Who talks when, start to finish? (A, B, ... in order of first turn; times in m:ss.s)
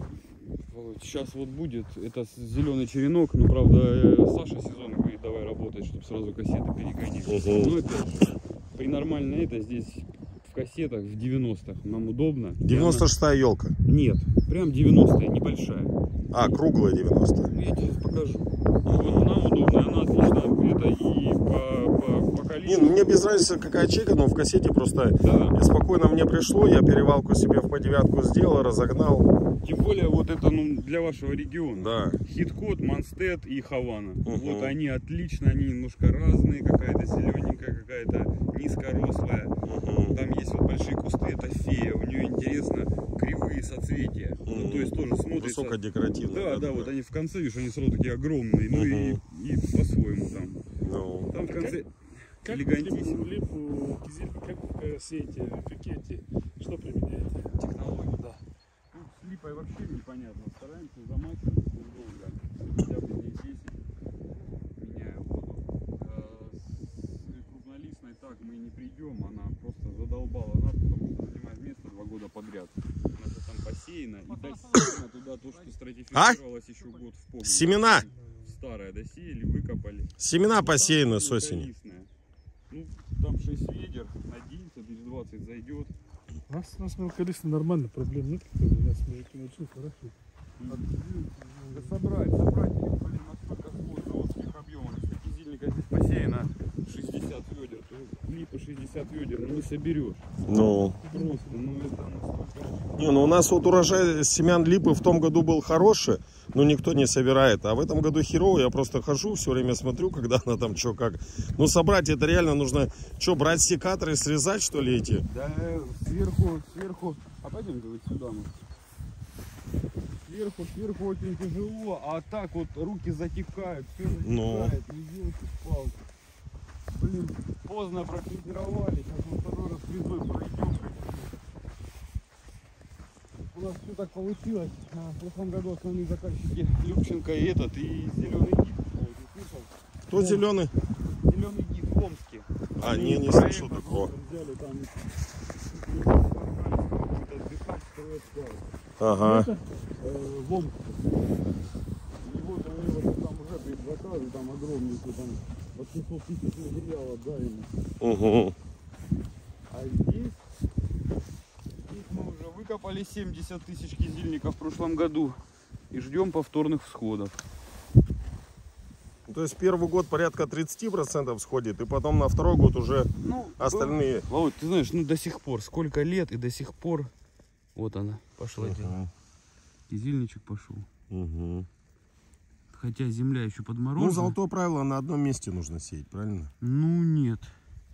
0:00.5-0:13.1 A
0:07.3-0:07.8 B
0:12.6-0:13.7 B
0:13.8-0:16.6 A
0:16.3-0:17.5 B
0:17.5-0:23.4 A
0:18.8-0:19.3 B
0:22.6-0:29.3 B
0:25.2-0:25.6 A
0:29.6-0:39.5 A
0:31.7-0:32.2 B
0:34.2-0:34.7 B
0:39.6-0:40.2 B
0:40.1-0:45.8 A
0:44.4-0:46.9 B
0:46.3-0:50.6 A
0:48.7-0:49.2 B
0:50.8-0:51.3 B
0:51.3-0:53.4 A
0:51.5-0:51.8 C
0:52.4-0:57.5 C
0:57.5-0:58.4 A
0:58.9-1:03.8 A
1:04.6-1:22.1 A
1:16.1-1:16.4 B
1:17.4-1:18.1 B
1:20.2-1:21.7 B
1:22.7-1:25.9 A
1:26.5-1:30.1 C
1:30.6-1:30.9 A
1:30.7-1:32.0 C
1:31.7-1:40.2 A
1:40.5-1:41.0 B
1:41.0-1:41.9 C
1:41.1-1:43.2 A
1:43.0-1:55.2 B
1:55.3-1:58.6 A
2:00.2-2:06.0 A
2:04.2-2:04.7 B
2:06.9-2:11.3 A
2:13.4-2:20.4 A
2:20.1-2:20.7 B
2:21.2-2:25.1 A
2:22.8-2:24.1 B
2:25.6-2:28.7 A
2:29.0-2:29.5 B
2:29.2-2:29.6 C
2:30.0-2:31.2 A
2:32.2-2:37.7 A
2:38.0-2:38.6 B
2:39.7-2:40.4 A
2:41.8-2:45.4 A
2:45.9-2:47.4 A
2:49.3-2:54.3 B
2:53.2-2:57.1 A
2:57.7-2:59.0 A
2:58.6-2:59.1 B
2:59.9-3:00.8 A
3:01.1-3:01.7 B
3:02.7-3:04.3 A
3:04.0-3:06.5 B
3:06.6-3:07.5 A